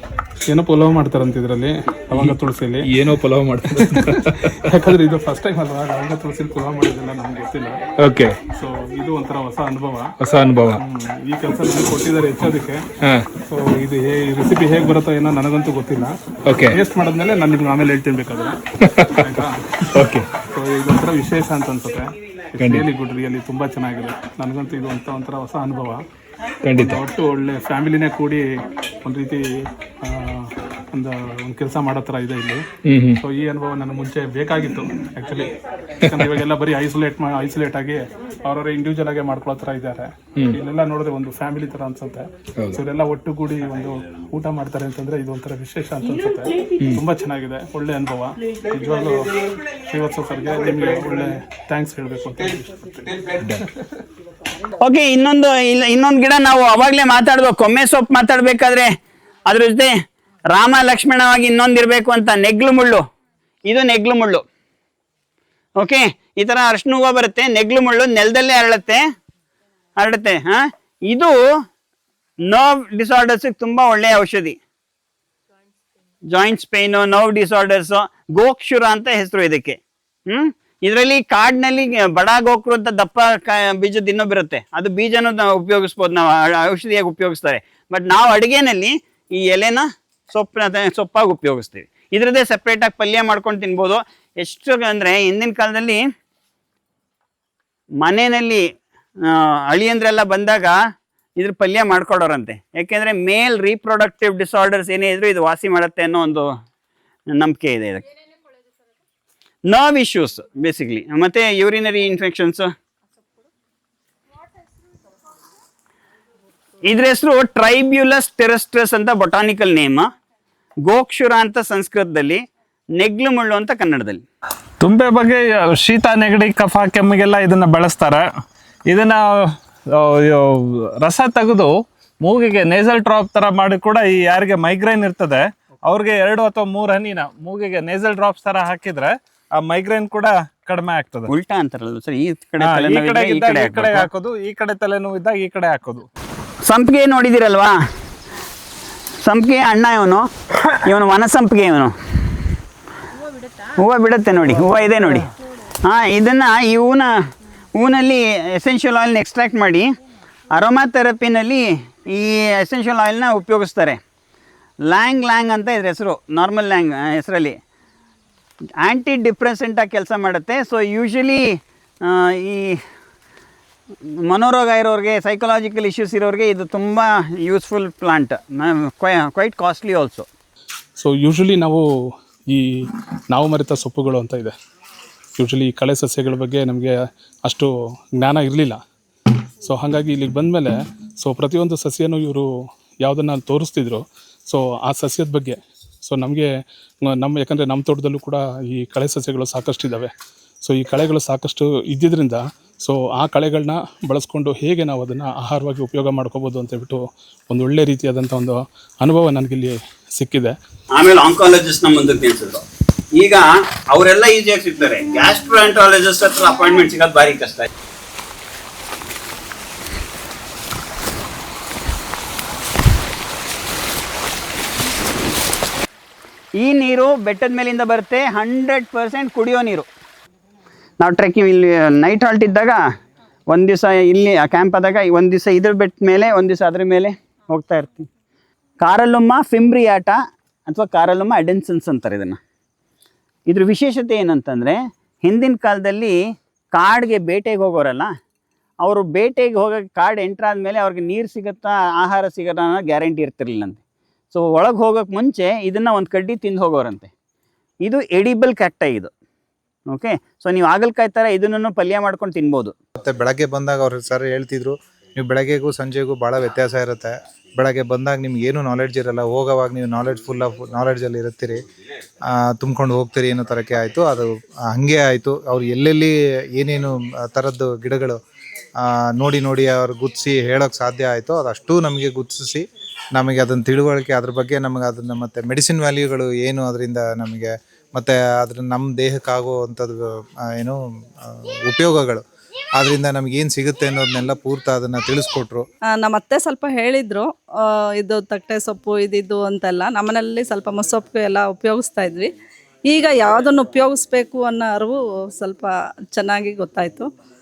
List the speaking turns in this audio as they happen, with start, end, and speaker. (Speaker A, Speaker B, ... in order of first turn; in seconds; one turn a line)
Speaker A: 0.5-2.9
Speaker B: 2.1-4.6
Speaker A: 3.7-7.8
Speaker B: 8.0-8.4
Speaker A: 8.5-10.1
Speaker B: 10.2-10.8
Speaker A: 10.7-12.8
Speaker B: 13.0-13.2
Speaker A: 13.4-26.0
Speaker B: 16.4-16.8
Speaker B: 18.8-19.1
Speaker B: 19.9-20.3
Speaker B: 22.6-22.9
Speaker B: 26.6-27.0
Speaker A: 26.7-28.5
Speaker A: 29.0-35.5
Speaker B: 32.8-33.2
Speaker A: 36.0-49.3
Speaker B: 46.8-47.0
Speaker A: 49.9-53.6
Speaker C: 54.8-58.9
Speaker C: 59.5-59.9
Speaker C: 60.5-63.0
Speaker C: 63.7-64.4
Speaker C: 65.8-69.0
Speaker C: 70.0-71.4
Speaker C: 72.5-74.6
Speaker C: 76.3-96.0
Speaker C: 98.0-98.6
Speaker C: 99.2-100.8
Speaker C: 101.4-106.5
Speaker C: 107.3-108.0
Speaker C: 109.7-112.7
Speaker C: 116.8-120.1
Speaker C: 120.9-122.4
Speaker C: 123.0-124.2
Speaker D: 124.8-128.2
Speaker D: 128.9-131.7
Speaker D: 132.2-141.3
Speaker C: 141.3-144.1
Speaker D: 142.6-146.1
Speaker C: 146.6-147.8
Speaker C: 149.2-151.9
Speaker C: 153.8-155.3
Speaker C: 155.8-157.1
Speaker C: 157.8-159.9
Speaker C: 160.5-164.0
Speaker C: 164.9-167.6
Speaker C: 168.8-172.8
Speaker C: 174.2-180.3
Speaker A: 181.0-181.8
Speaker A: 183.3-184.5
Speaker A: 185.4-186.9
Speaker A: 187.5-188.8
Speaker A: 189.6-192.5
Speaker A: 193.0-196.5
Speaker A: 197.0-200.1
Speaker A: 200.6-210.5
Speaker C: 211.0-212.6
Speaker C: 213.1-217.7
Speaker C: 226.6-229.9
Speaker C: 231.0-232.8
Speaker C: 233.5-238.1
Speaker C: 238.8-242.4
Speaker C: 243.5-246.2
Speaker C: 246.7-248.1
Speaker C: 248.8-253.8
Speaker C: 254.3-257.1
Speaker C: 257.9-259.1
Speaker C: 259.9-262.7
Speaker E: 263.0-271.6
Speaker E: 272.5-278.2
Speaker E: 278.8-282.6
Speaker E: 283.1-290.0
Speaker E: 290.6-292.2
Speaker E: 292.8-295.6
Speaker F: 296.0-297.3
Speaker F: 298.0-302.3
Speaker F: 302.9-307.1